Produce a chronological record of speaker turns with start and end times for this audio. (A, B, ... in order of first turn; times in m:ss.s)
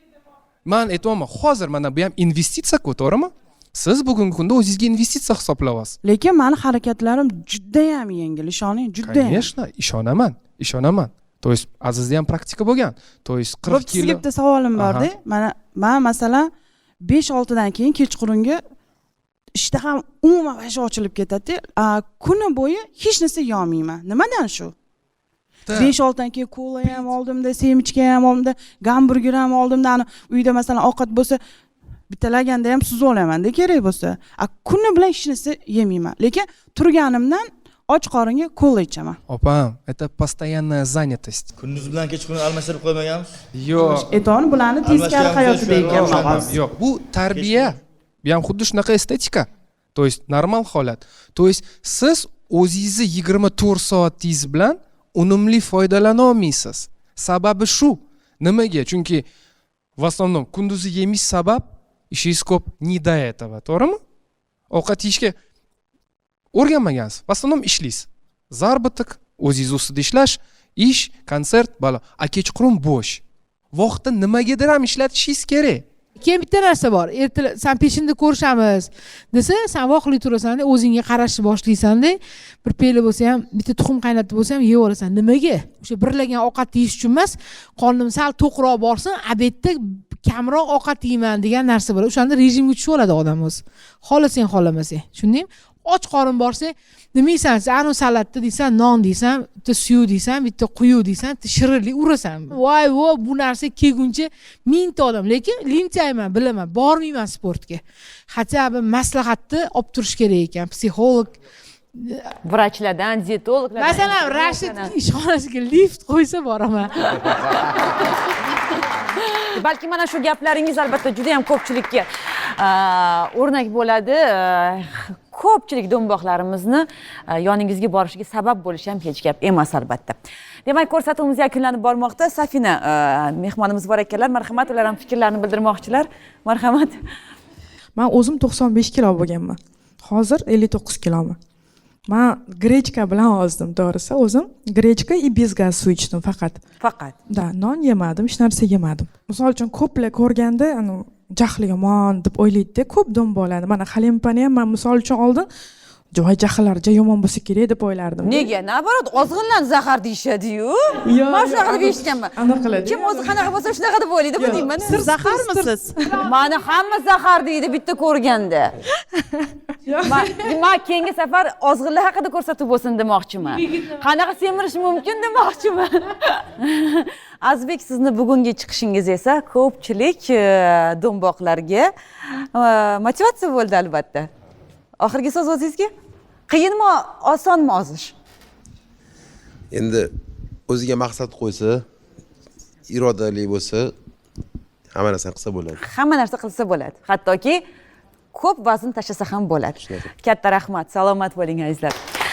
0:00.7-0:06.0 A
0:06.0-0:09.5 B
0:09.0-0:14.2 A
0:13.6-0:16.5 B
0:14.8-0:15.1 A
0:17.0-0:18.6 B
0:19.6-0:24.8 B
0:25.7-0:25.9 A
0:25.7-0:31.4 B
0:32.1-0:39.2 B
0:39.3-0:41.5 A
0:41.6-0:43.4 C
0:43.5-0:44.1 A
0:43.8-0:46.6 B
0:44.8-0:46.5 C
0:45.9-0:59.2 A
0:47.4-0:47.6 C
1:00.0-1:04.0 A
1:04.7-1:05.4 A
1:06.5-1:15.8 A
1:16.2-1:51.3 D
1:52.0-1:52.3 D
1:52.4-1:54.9 E
1:53.8-1:57.4 D
1:59.5-2:17.0 E
2:18.0-2:21.4 F
2:22.1-2:26.6 F
2:26.8-2:27.2 E
2:27.3-2:35.5 F
2:36.2-2:38.5 F
2:38.2-2:45.1 E
2:41.0-2:43.5 F
2:44.4-2:46.3 F
2:44.9-2:45.9 B
2:46.2-2:48.7 E
2:49.8-2:50.5 F
2:50.1-3:04.3 E
3:05.0-3:05.9 E
3:06.5-3:08.1 E
3:09.7-3:10.1 G
3:10.7-3:11.8 G
3:12.9-3:13.9 G
3:14.9-3:15.8 G
3:15.8-3:17.6 E
3:18.3-3:22.0 E
3:19.8-3:20.1 G